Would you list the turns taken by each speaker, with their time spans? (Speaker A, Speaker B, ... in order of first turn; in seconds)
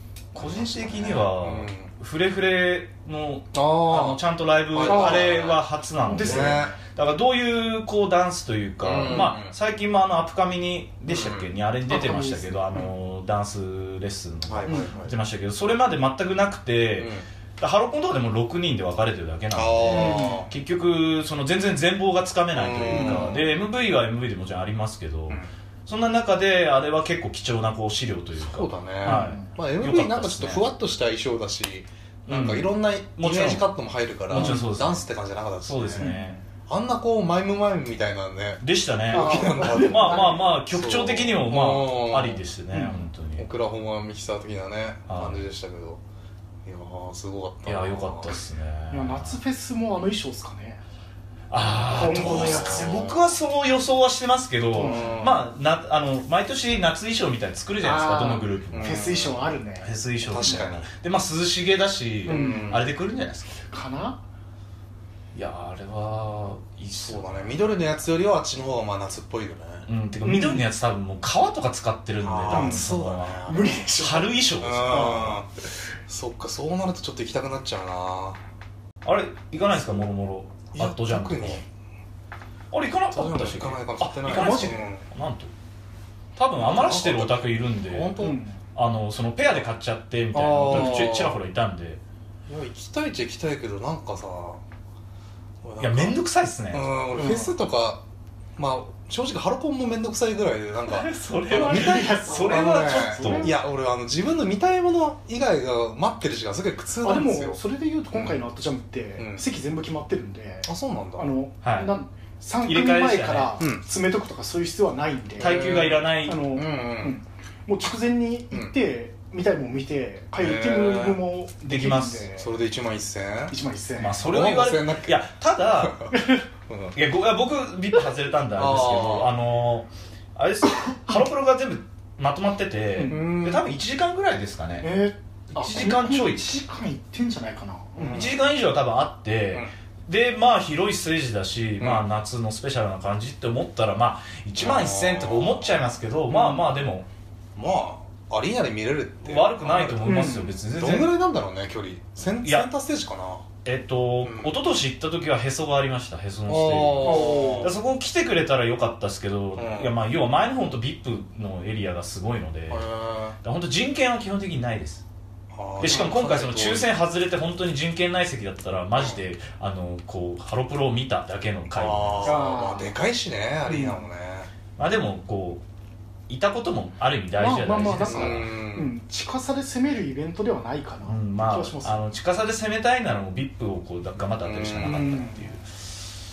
Speaker A: 0.3-1.9, 3.5-6.8, 8.8-9.5, 11.1-11.5, 14.4-15.1, 17.0-17.3, 19.5-20.5, 22.5-23.4, 28.4-36.1, 36.7-42.4, 43.4-46.0, 46.6-48.4, 51.9-53.2, 54.8-55.5, 58.7-59.5, 60.2-60.9, 62.2-62.8, 67.0-69.9, 72.2-73.6, 74.6-75.5, 76.1-78.4, 80.7-81.6, 83.1-85.0, 86.6-88.4, 90.3-91.4, 92.5-94.6, 95.6-96.2, 96.7-98.0, 98.5-107.6, 108.1-108.4, 109.2-109.4, 110.6-111.3, 115.4-116.0, 116.5-117.2, 120.4-121.2, 122.4-123.5, 124.2-125.2, 125.8-126.1, 126.7-127.0, 128.6-129.3, 133.1-133.6, 138.0-138.4, 144.6-145.7, 147.6-153.5, 154.2-154.5, 156.5-157.7, 159.6-159.9, 162.7-163.4, 165.5-166.9, 171.7-174.5, 178.0-178.9, 184.4-185.2
Speaker B: 0.3-30.7, 32.3-33.7, 34.3-35.1, 35.6-36.4, 38.6-43.5, 45.1-45.4, 47.6-49.4, 51.5-59.2, 59.8-63.6, 65.3-67.6, 69.9-75.4, 79.0-81.6, 82.7-85.5, 86.4-88.2, 88.7-92.0, 95.8-97.0, 100.9-103.5, 111.6-111.9, 112.6-113.5, 115.4-116.4, 121.7-122.3, 124.0-126.1, 126.9-134.9, 135.5-136.6, 138.1-147.1, 149.2-151.1, 152.4-152.7, 153.6-162.8, 163.4-165.0, 165.8-172.3, 174.8-175.6, 176.3-178.5, 181.0-185.8
Speaker C: 4.8-5.3, 6.0-6.7, 11.9-12.8, 14.7-14.9, 19.9-20.5, 22.9-23.3, 29.0-29.5, 34.3-34.6, 36.0-36.4, 39.1-40.5, 42.7-43.0, 48.9-50.8, 52.0-53.0, 54.7-55.1, 57.8-60.6, 62.2-62.8, 63.7-64.2, 70.2-70.7, 72.5-72.9, 73.4-74.4, 84.3-84.8, 88.2-88.5, 97.1-97.5, 101.5-103.5, 107.0-122.5, 123.5-124.2, 126.1-126.4, 132.9-133.3, 134.8-138.2, 146.3-146.6, 150.0-150.5, 157.0-157.7, 172.2-172.9, 173.7-174.0, 177.3-182.0, 184.8-185.5